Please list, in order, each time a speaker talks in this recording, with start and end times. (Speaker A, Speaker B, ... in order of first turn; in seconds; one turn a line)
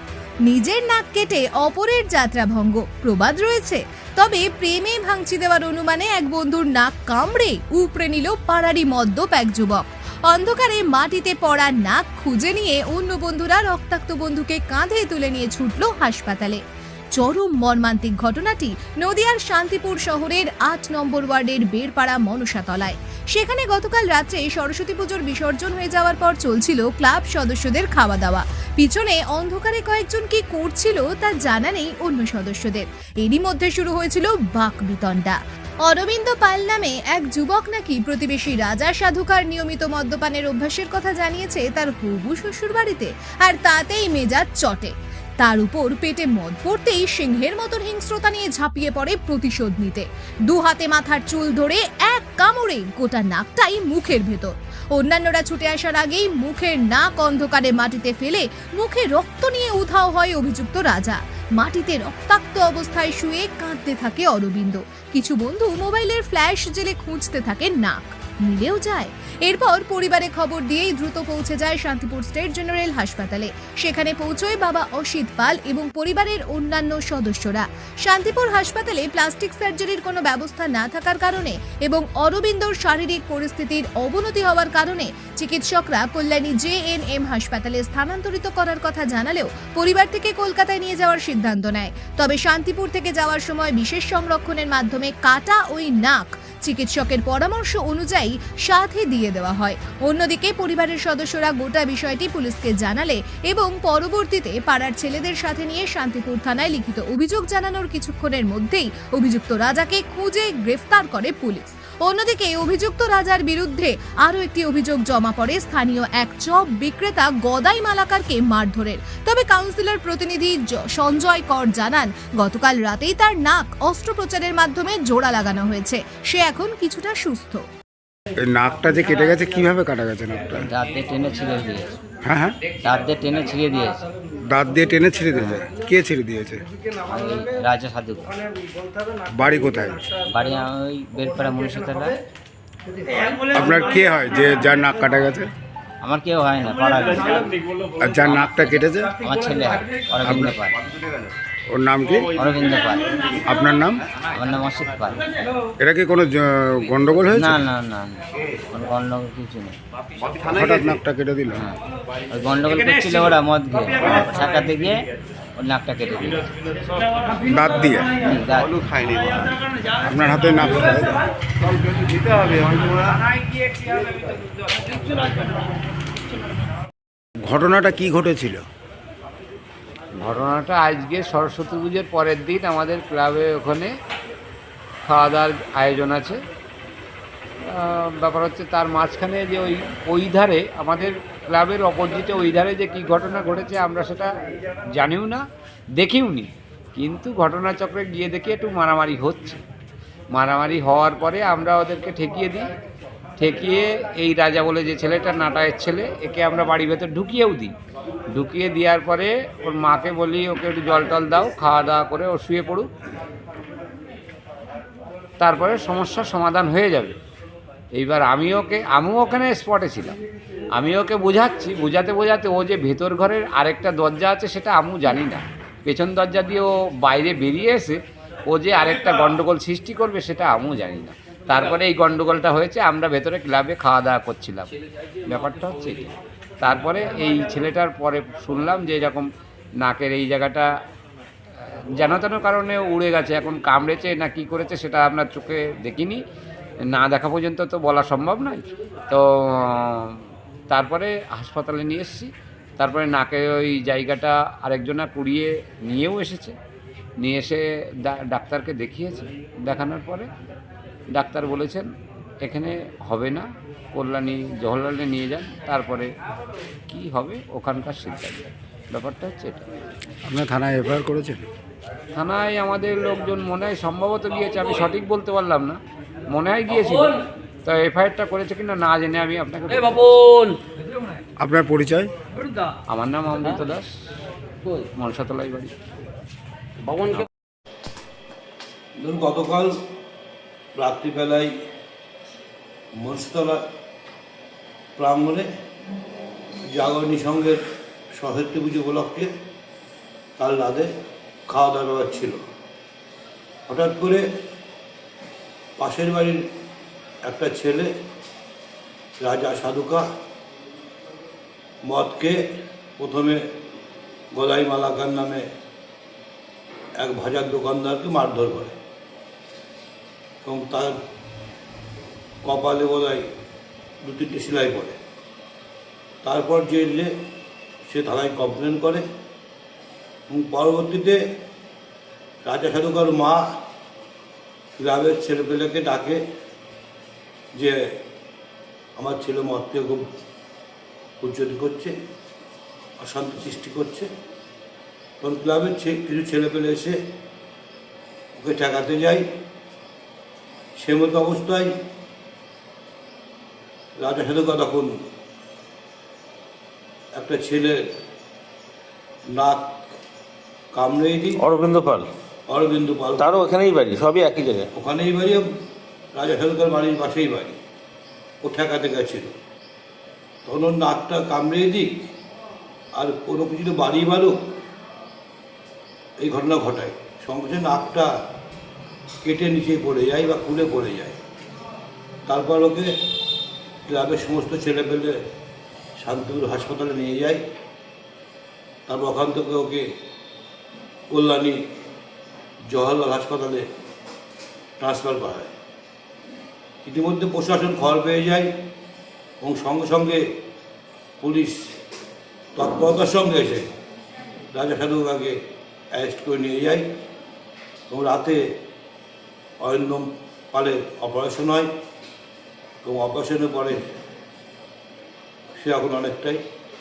Speaker A: 0.5-16.6
Speaker A: 17.1-127.6
Speaker B: 128.3-130.7
Speaker C: 130.7-132.0
Speaker B: 132.2-132.6
Speaker C: 132.8-134.0
Speaker B: 134.5-136.6
Speaker C: 137.1-138.3
Speaker B: 139.3-140.0
Speaker C: 140.3-142.1
Speaker B: 143.5-145.5
Speaker C: 146.0-147.5
Speaker B: 148.0-149.1
Speaker C: 148.2-150.7
Speaker B: 150.2-150.6
Speaker B: 151.7-152.3
Speaker C: 152.4-153.0
Speaker B: 153.4-154.0
Speaker C: 154.3-155.2
Speaker B: 155.8-157.6
Speaker C: 157.3-159.8
Speaker B: 160.5-161.6
Speaker C: 162.3-165.1
Speaker C: 165.6-166.4
Speaker B: 167.4-168.2
Speaker C: 168.2-169.2
Speaker B: 170.0-171.2
Speaker B: 177.4-178.7
Speaker D: 180.2-183.9
Speaker D: 185.0-186.4
Speaker D: 187.6-194.3
Speaker D: 194.9-195.4
Speaker D: 195.9-199.6
Speaker D: 200.3-202.7
Speaker D: 203.4-207.7
Speaker D: 208.3-212.9
Speaker D: 215.4-217.2
Speaker D: 217.9-220.2
Speaker D: 220.7-234.7
Speaker D: 235.3-239.3
Speaker D: 239.8-240.7
Speaker D: 242.0-246.2
Speaker D: 246.9-256.6
Speaker D: 257.2-260.3
Speaker D: 261.1-261.9
Speaker D: 262.4-266.1
Speaker D: 266.9-269.6
Speaker B: 270.2-271.4
Speaker D: 272.1-280.4
Speaker B: 281.4-282.1
Speaker D: 282.9-283.9
Speaker D: 284.7-285.7
Speaker D: 286.8-287.3
Speaker E: 289.0-289.7
Speaker E: 290.8-291.5
Speaker E: 293.0-293.6
Speaker E: 295.0-295.5
Speaker E: 296.7-297.6
Speaker E: 298.1-299.3
Speaker E: 300.4-300.9
Speaker E: 301.5-302.4
Speaker E: 303.7-304.2
Speaker E: 305.8-306.4
Speaker E: 307.2-307.9
Speaker E: 309.2-310.0
Speaker E: 311.8-312.4
Speaker E: 313.0-313.4
Speaker E: 314.3-315.4
Speaker E: 317.0-318.7
Speaker E: 320.4-320.9
Speaker E: 322.4-323.3
Speaker E: 324.0-324.9
Speaker E: 326.2-327.1
Speaker E: 327.9-329.0
Speaker E: 330.3-331.2
Speaker E: 332.4-333.4
Speaker E: 334.8-336.2
Speaker E: 338.9-340.0
Speaker E: 341.2-341.9
Speaker E: 343.0-344.1
Speaker E: 345.2-347.0
Speaker E: 348.4-349.2
Speaker E: 350.8-351.7
Speaker E: 354.0-354.9
Speaker E: 357.1-357.8
Speaker E: 359.3-359.7
Speaker E: 360.7-361.4
Speaker F: 361.4-362.1
Speaker E: 362.5-363.3
Speaker F: 363.2-364.7
Speaker E: 364.7-365.5
Speaker E: 366.1-367.6
Speaker E: 368.4-369.3
Speaker E: 370.4-371.9
Speaker E: 372.9-374.4
Speaker E: 376.2-378.1
Speaker E: 379.2-381.2
Speaker E: 382.2-382.9
Speaker E: 383.9-385.2
Speaker E: 386.0-387.4
Speaker E: 388.9-389.9
Speaker E: 391.1-391.6
Speaker E: 392.7-393.6
Speaker E: 394.8-395.5
Speaker E: 396.8-398.5
Speaker E: 399.4-400.2
Speaker E: 401.2-401.7
Speaker E: 402.5-403.7
Speaker E: 404.5-405.4
Speaker E: 405.9-406.9
Speaker E: 407.9-408.4
Speaker E: 409.6-411.7
Speaker E: 412.8-413.9
Speaker E: 415.6-416.4